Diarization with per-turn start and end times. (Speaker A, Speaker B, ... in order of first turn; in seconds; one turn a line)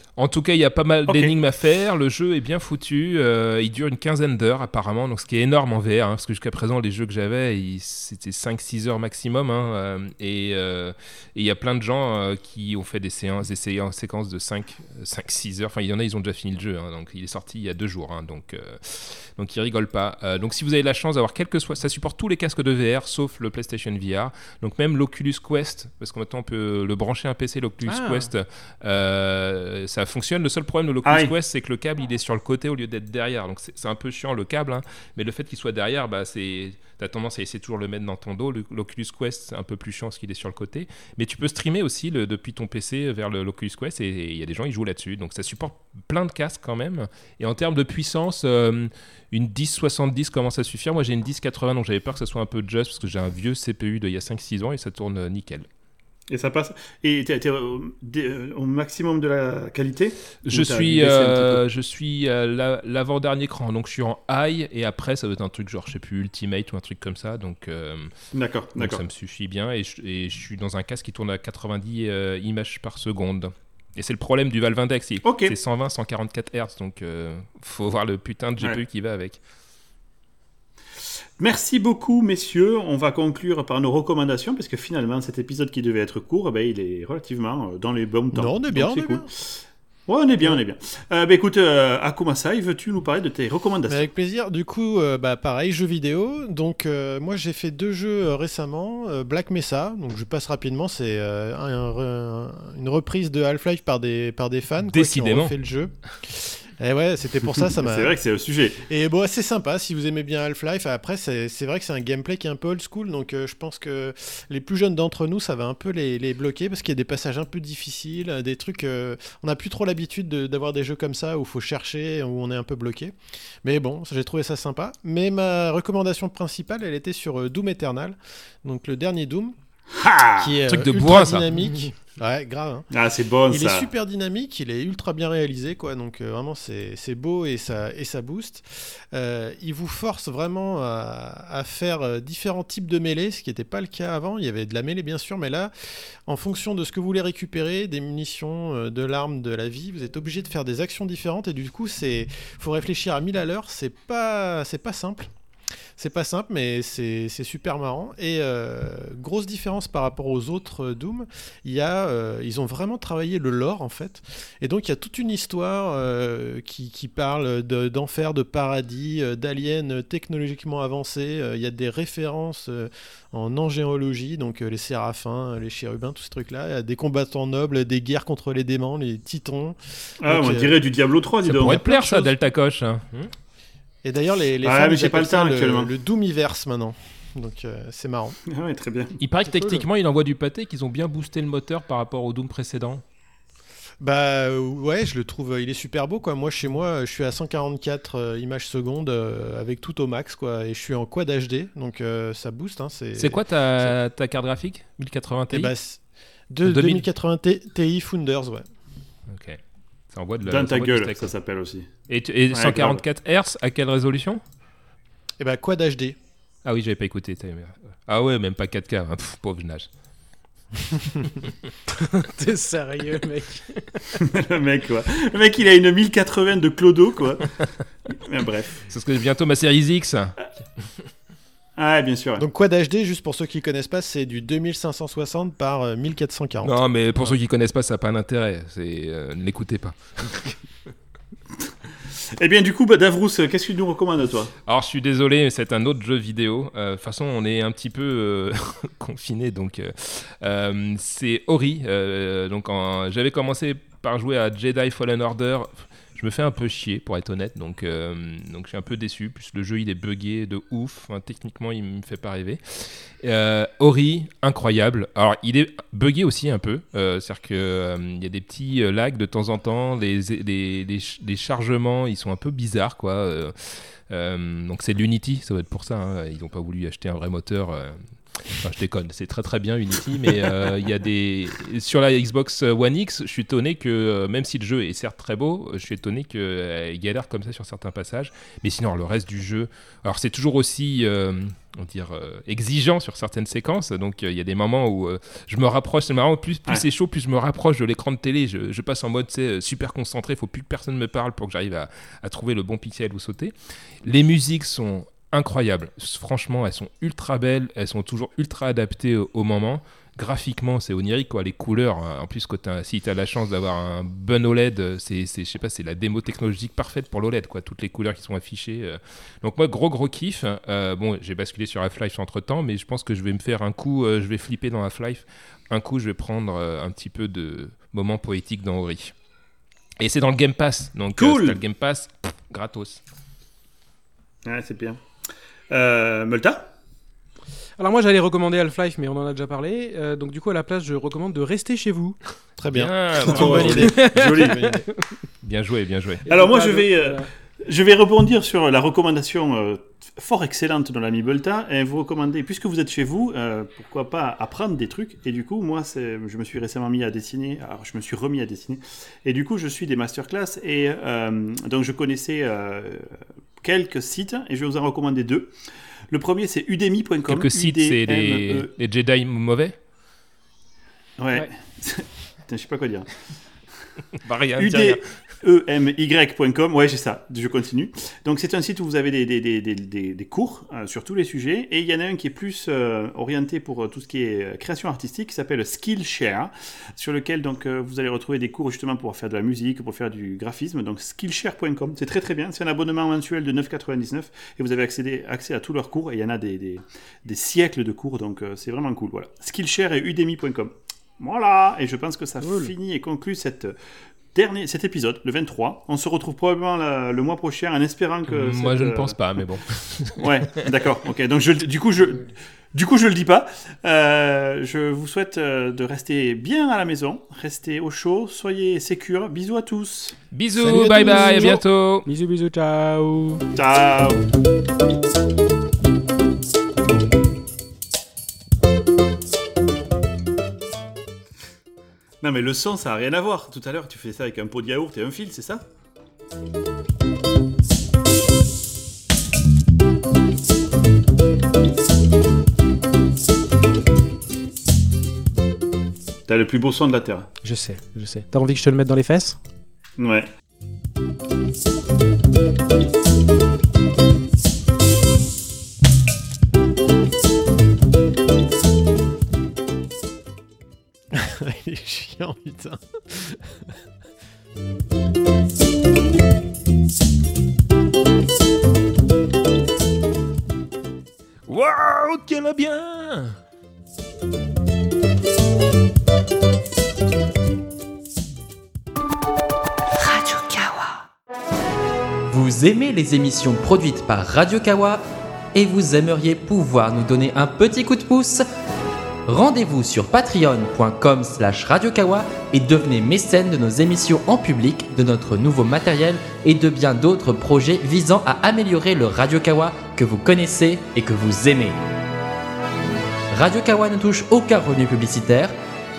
Speaker A: 0.2-55.7
Speaker B: 1.1-1.4
Speaker C: 27.9-28.3
Speaker B: 31.0-31.3
Speaker B: 56.3-61.6
Speaker A: 60.5-68.1
Speaker B: 68.3-69.0
Speaker A: 68.8-79.4
Speaker B: 75.2-75.5
Speaker B: 81.4-94.1
Speaker D: 88.3-89.3
Speaker D: 93.9-108.1
Speaker A: 104.9-105.5
Speaker B: 107.8-108.8
Speaker D: 108.9-129.5
Speaker B: 129.9-130.6
Speaker D: 130.4-132.8
Speaker A: 130.7-131.5
Speaker B: 132.9-133.9
Speaker D: 133.5-145.7
Speaker D: 146.3-155.3
Speaker D: 156.0-180.8
Speaker B: 180.2-181.8
Speaker A: 181.4-183.3
Speaker D: 181.6-182.3
Speaker D: 184.0-188.4
Speaker B: 184.6-185.9
Speaker B: 188.5-189.2
Speaker A: 189.2-193.0
Speaker D: 189.5-189.8
Speaker D: 194.0-203.9
Speaker A: 203.2-205.7
Speaker D: 205.5-208.7
Speaker A: 206.6-207.1
Speaker A: 209.3-209.6
Speaker A: 210.1-211.3
Speaker B: 210.4-211.9
Speaker A: 212.1-214.4
Speaker B: 212.5-213.0
Speaker D: 215.4-216.2
Speaker A: 216.6-219.9
Speaker C: 222.0-224.1
Speaker B: 224.2-227.6
Speaker B: 228.1-228.8
Speaker A: 228.9-230.3
Speaker B: 231.8-232.4
Speaker D: 232.4-236.8
Speaker A: 236.6-240.6
Speaker B: 242.4-244.5
Speaker A: 244.7-273.5
Speaker A: 274.1-329.1
Speaker A: 330.0-333.0
Speaker B: 331.2-331.6
Speaker B: 334.4-335.0
Speaker B: 335.7-336.7
Speaker C: 337.8-342.2
Speaker D: 342.6-344.9
Speaker A: 342.7-344.1
Speaker B: 343.2-344.6
Speaker C: 343.8-345.0
Speaker A: 345.4-346.2
Speaker C: 346.2-347.3
Speaker B: 346.3-365.5
Speaker B: 366.1-368.7
Speaker A: 367.3-369.8
Speaker B: 371.2-373.1
Speaker A: 374.2-375.0
Speaker B: 374.6-403.7
Speaker C: 402.4-402.7
Speaker B: 404.3-409.2
Speaker A: 408.3-410.4
Speaker B: 410.2-420.2
Speaker A: 420.3-422.1
Speaker D: 420.6-421.6
Speaker C: 420.6-423.4
Speaker B: 423.6-424.2
Speaker B: 432.2-435.6
Speaker B: 446.3-447.3
Speaker C: 447.4-449.4
Speaker B: 450.0-450.3
Speaker D: 461.1-463.7
Speaker A: 471.5-473.4
Speaker E: 479.9-481.0
Speaker E: 482.3-485.0
Speaker E: 485.5-488.4
Speaker E: 489.3-501.8
Speaker E: 503.3-505.5